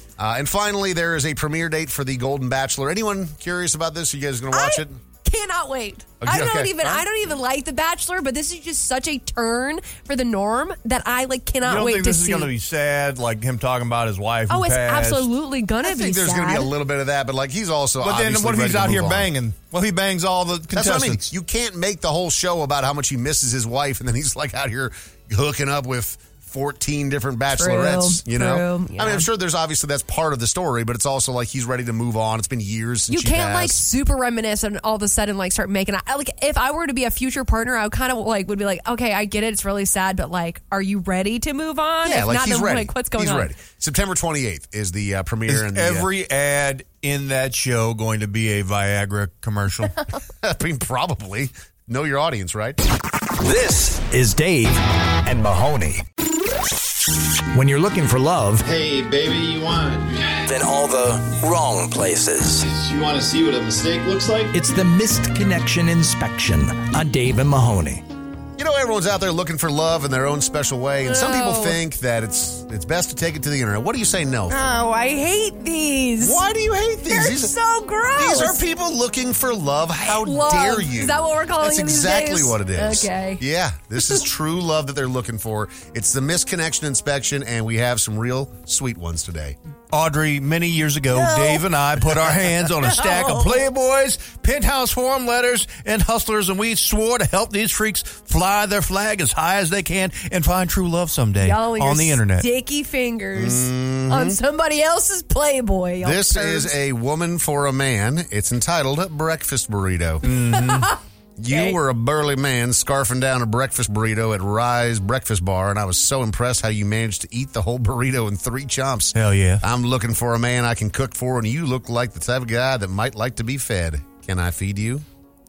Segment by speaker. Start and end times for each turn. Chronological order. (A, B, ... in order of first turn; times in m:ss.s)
0:00.2-0:05.0 A
0:04.5-0:12.5 B
0:06.2-0:07.0 A
0:11.6-0:15.3 C
0:14.5-0:16.7 B
0:15.8-0:19.3 A
0:18.0-0:21.3 C
0:20.7-0:33.8 A
0:27.5-0:29.3 B
0:33.1-0:43.5 B
0:42.0-0:46.1 A
0:45.5-0:50.0 C
0:50.4-0:52.8 A
0:53.4-0:56.0 D
0:57.5-0:58.7 D
0:58.7-1:00.4 E
1:00.5-1:02.7 D
1:02.7-1:04.5 E
1:04.5-1:08.0 D
1:08.6-1:14.6 A
1:11.0-1:11.8 B
1:14.5-1:16.4 B
1:16.2-1:17.5 A
1:17.1-1:18.6 B
1:18.2-1:29.6 A
1:20.0-1:23.4 B
1:29.9-1:42.5 C
1:31.1-1:31.6 B
1:32.8-1:33.6 B
1:41.4-1:46.7 B
1:43.4-1:44.4 A
1:46.0-1:50.3 A
1:50.2-1:50.9 C
1:50.6-1:51.0 B
1:51.4-2:05.0 A
1:51.5-1:51.8 B
1:59.2-1:59.6 C